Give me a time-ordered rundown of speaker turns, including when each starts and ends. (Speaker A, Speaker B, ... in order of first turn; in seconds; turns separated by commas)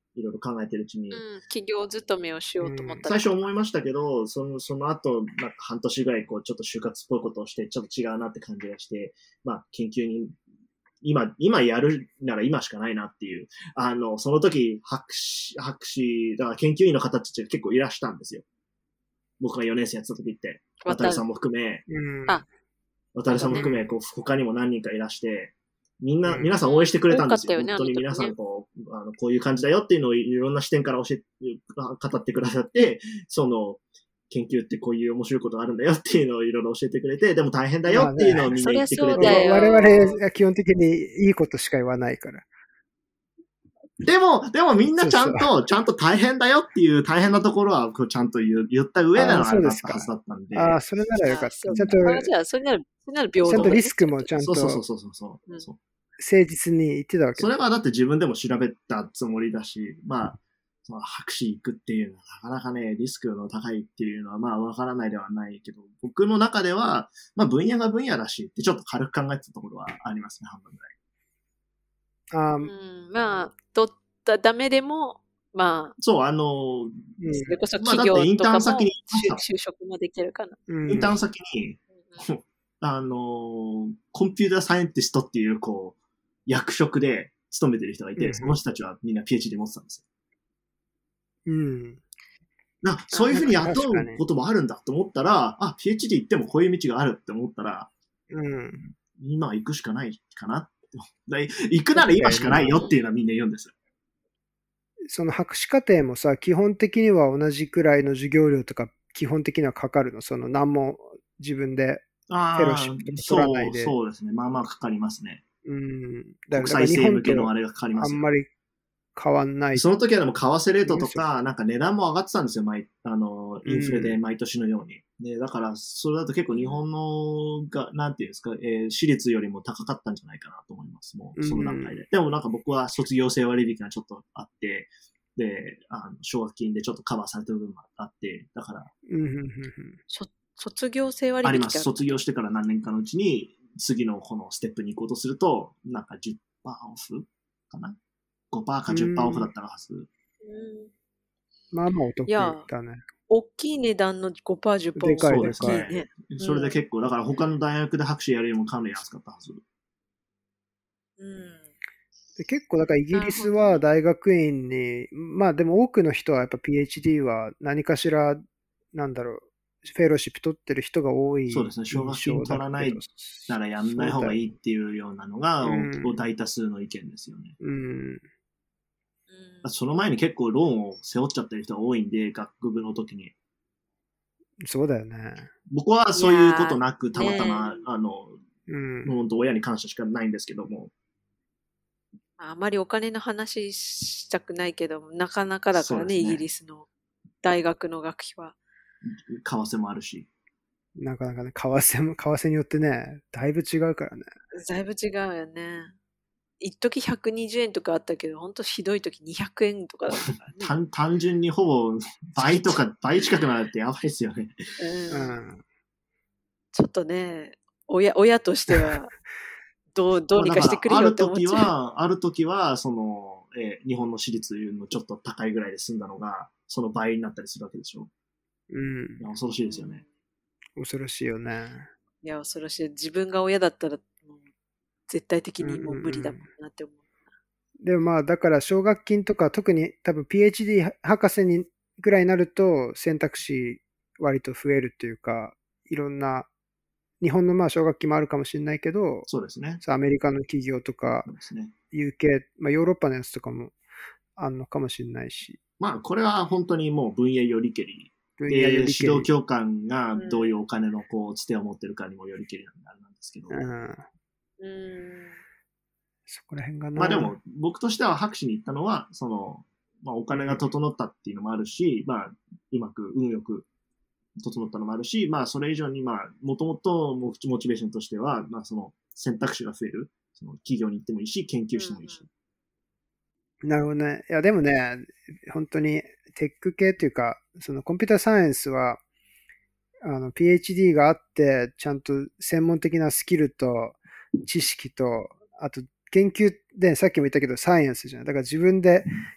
Speaker A: 0.1-1.2, Speaker B: 1.1-3.4, Speaker C: 2.6-3.0, Speaker A: 3.1-10.4, Speaker A: 11.0-18.4, Speaker A: 19.4-21.9, Speaker B: 20.8-21.2, Speaker C: 21.9-22.4, Speaker A: 23.1-39.6, Speaker C: 23.4-23.9, Speaker B: 23.5-23.7, Speaker C: 26.3-26.5, Speaker B: 26.6-28.3, Speaker C: 37.9-38.5, Speaker B: 38.5-40.2, Speaker C: 39.1-42.5, Speaker A: 44.0-50.8, Speaker C: 45.0-45.5, Speaker C: 49.1-52.3, Speaker B: 51.2-54.4, Speaker C: 53.5-54.8, Speaker A: 53.5-53.8, Speaker A: 54.4-55.8, Speaker C: 56.2-57.5, Speaker A: 57.4-70.9, Speaker C: 72.3-72.7, Speaker B: 72.6-76.0, Speaker A: 76.0-77.0, Speaker C: 77.2-77.6, Speaker B: 77.3-80.6, Speaker A: 77.8-79.4, Speaker C: 80.7-81.2, Speaker A: 80.9-86.0, Speaker A: 86.5-90.0, Speaker C: 88.2-88.6, Speaker C: 91.5-92.0, Speaker A: 92.8-97.9, Speaker B: 93.1-93.5, Speaker C: 93.3-94.2, Speaker C: 98.3-98.8, Speaker A: 98.8-103.7, Speaker C: 102.0-102.8, Speaker B: 102.8-103.1, Speaker C: 105.1-114.0, Speaker A: 112.3-115.4, Speaker C: 115.7-118.5, Speaker A: 116.5-118.3, Speaker C: 119.2-119.9, Speaker A: 119.7-138.9, Speaker C: 120.9-121.2, Speaker C: 123.7-124.2, Speaker B: 126.5-126.8, Speaker C: 131.4-132.0, Speaker C: 139.1-140.0, Speaker B: 140.1-142.1, Speaker A: 141.4-148.0, Speaker A: 148.5-150.1, Speaker C: 148.9-149.5, Speaker B: 150.4-150.9, Speaker C: 151.7-153.0, Speaker B: 152.3-152.7, Speaker B: 153.3-156.8, Speaker C: 155.0-155.9, Speaker A: 155.2-159.6, Speaker B: 161.2-161.7, Speaker C: 162.4-174.5, Speaker B: 163.1-163.8, Speaker A: 171.5-177.6, Speaker C: 175.6-176.3, Speaker C: 177.6-178.2, Speaker B: 179.3-179.7, Speaker A: 179.6-183.3, Speaker C: 184.6-185.5, Speaker A: 185.7-188.4, Speaker B: 186.1-187.8, Speaker C: 188.7-189.1, Speaker A: 189.0-190.9, Speaker B: 192.4-196.9, Speaker A: 195.7-196.4, Speaker B: 197.4-198.6, Speaker A: 199.1-200.3, Speaker C: 201.0-204.3, Speaker B: 204.6-205.9, Speaker B: 206.6-210.8, Speaker A: 210.6-214.6, Speaker B: 212.4-212.8, Speaker B: 214.8-215.4, Speaker C: 215.1-215.6, Speaker B: 216.7-219.1, Speaker B: 219.9-221.7, Speaker A: 220.4-228.1, Speaker C: 228.7-229.3, Speaker A: 229.2-230.0, Speaker B: 229.6-230.1, Speaker C: 230.8-231.9, Speaker B: 232.2-234.4, Speaker B: 235.1-237.0, Speaker C: 235.6-236.4, Speaker C: 237.8-246.5, Speaker C: 247.2-249.3, Speaker A: 249.3-249.8, Speaker C: 249.8-251.3, Speaker A: 251.3-251.7, Speaker C: 251.9-253.8, Speaker C: 254.4-255.6, Speaker A: 255.8-263.6, Speaker C: 258.4-259.3, Speaker B: 260.1-260.6, Speaker C: 263.5-264.1, Speaker B: 264.6-265.4, Speaker C: 266.3-267.4, Speaker A: 267.0-273.7, Speaker C: 270.3-270.6, Speaker A: 274.4-282.3, Speaker B: 281.8-282.2, Speaker C: 283.6-289.0, Speaker C: 290.0-299.1